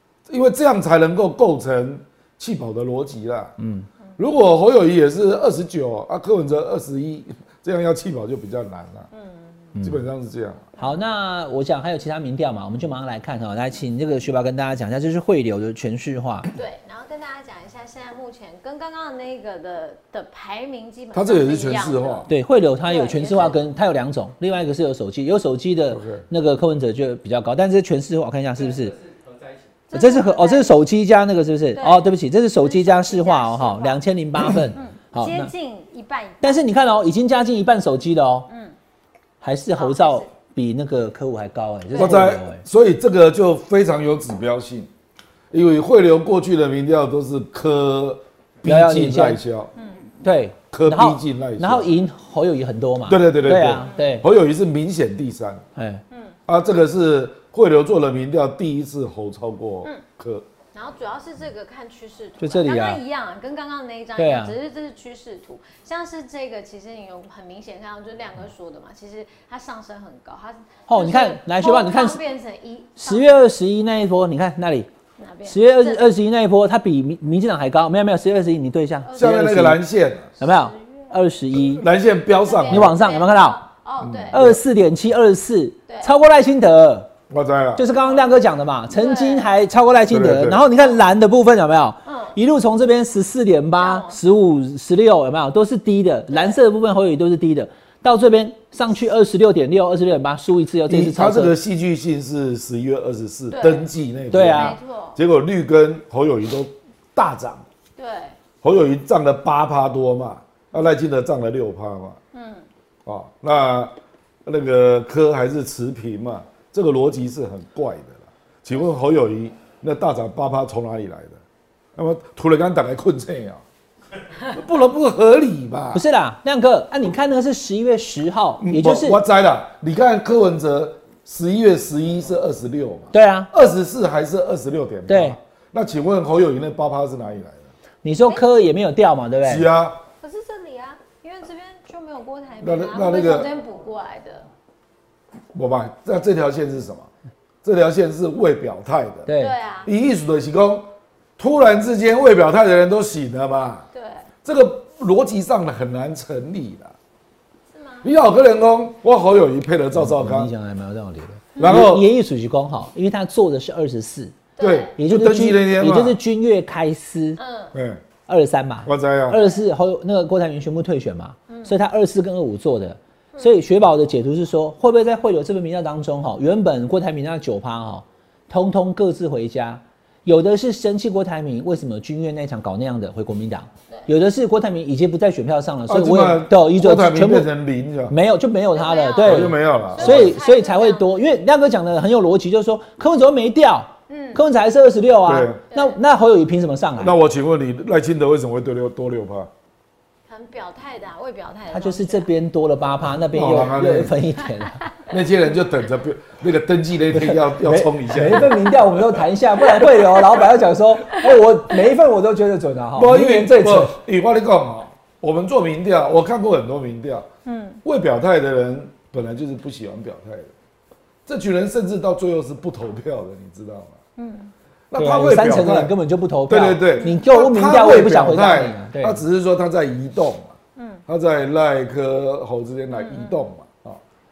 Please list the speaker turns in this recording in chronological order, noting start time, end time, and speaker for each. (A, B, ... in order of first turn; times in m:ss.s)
0:00.3-0:03.6 A
0:03.6-0:03.9 B
0:04.2-0:09.1 A
0:09.1-0:09.6 C
0:09.8-0:10.0 B
0:09.8-0:10.7 A
0:10.8-0:16.5 B
0:16.6-0:22.3 C
0:21.1-0:22.3 A
0:22.3-0:29.0 B
0:22.8-0:23.6 C
0:25.9-0:26.3 A
0:29.9-0:30.8 C
0:29.9-0:35.5 B
0:31.8-0:36.6 C
0:36.4-0:38.5 B
0:38.5-0:38.8 C
0:39.4-0:42.6 B
0:39.8-0:40.3 C
0:41.9-0:42.2 C
0:42.0-0:44.9 A
0:45.5-0:49.7 A
0:48.6-0:49.4 B
0:49.8-0:50.0 C
0:50.2-0:54.2 B
0:50.7-0:51.9 A
0:53.1-0:55.6 A
0:55.8-0:56.0 B
0:56.1-0:56.4 C
0:56.5-1:00.5 A
1:00.7-1:13.3 C
1:02.4-1:03.0 B
1:04.2-1:04.6 B
1:10.9-1:12.2 B
1:13.0-1:14.9 B
1:15.2-1:16.1 C
1:15.4-1:19.8 B
1:19.0-1:19.3 C
1:19.2-1:20.3 A
1:20.4-1:21.8 B
1:20.4-1:21.1 C
1:21.8-1:23.0 A
1:22.4-1:24.5 C
1:22.7-1:23.6 B
1:24.0-1:24.6 A
1:24.3-1:27.1 B
1:25.9-1:26.1 C
1:27.3-1:27.8 A
1:27.8-1:41.6 B
1:28.0-1:28.3 C
1:28.9-1:29.5 C
1:30.1-1:30.6 A
1:30.8-1:31.0 C
1:32.1-1:32.4 C
1:33.8-1:34.2 C
1:36.3-1:36.6 C
1:40.9-1:47.6 A
1:43.5-1:43.9 C
1:44.3-1:44.8 B
1:44.4-1:45.2 C
1:48.0-1:48.4 C
1:48.6-1:52.2 A
1:52.3-1:52.6 C
1:53.0-2:01.4 A
2:02.0-2:03.6 A
2:04.4-2:06.0 A
2:05.9-2:09.2 B
2:08.6-2:17.7 A
2:13.1-2:13.5 B
2:15.1-2:15.4 B
2:18.0-2:19.7 B
2:19.4-2:20.0 A
2:20.2-2:24.5 C
2:22.6-2:23.5 A
2:25.5-2:27.1 A
2:27.6-2:29.3 A
2:29.3-2:29.5 B
2:29.4-2:29.9 C
2:29.9-2:33.8 A
2:33.9-2:34.3 C
2:34.4-2:37.0 A
2:37.7-2:38.1 C
2:38.0-2:40.5 A
2:39.9-2:44.4 B
2:41.6-2:41.8 C
2:41.6-2:42.1 A
2:44.6-2:44.9 C
2:44.6-2:46.2 A
2:45.0-2:47.4 B
2:47.4-2:47.7 C
2:47.7-2:48.0 A
2:48.3-3:07.5 B
2:48.8-2:49.4 A
2:51.5-2:51.7 C
3:05.9-3:08.2 A
3:08.1-3:17.2 B
3:08.7-3:11.1 C
3:09.2-3:10.4 A
3:14.1-3:14.4 C
3:15.2-3:15.6 A
3:15.7-3:16.0 C
3:17.0-3:19.5 A
3:20.3-3:22.3 C
3:21.7-3:24.9 B
3:23.3-3:24.2 A
3:25.1-3:29.2 A
3:27.2-3:34.0 B
3:33.0-3:37.3 A
3:37.4-3:37.8 C
3:37.8-3:40.5 A
3:41.3-3:44.0 A
3:44.2-3:44.5 C
3:44.9-3:45.9 A
3:45.0-3:49.2 B
3:46.5-3:50.6 A
3:50.8-3:51.0 C
3:51.1-3:54.0 A
3:52.9-3:53.4 C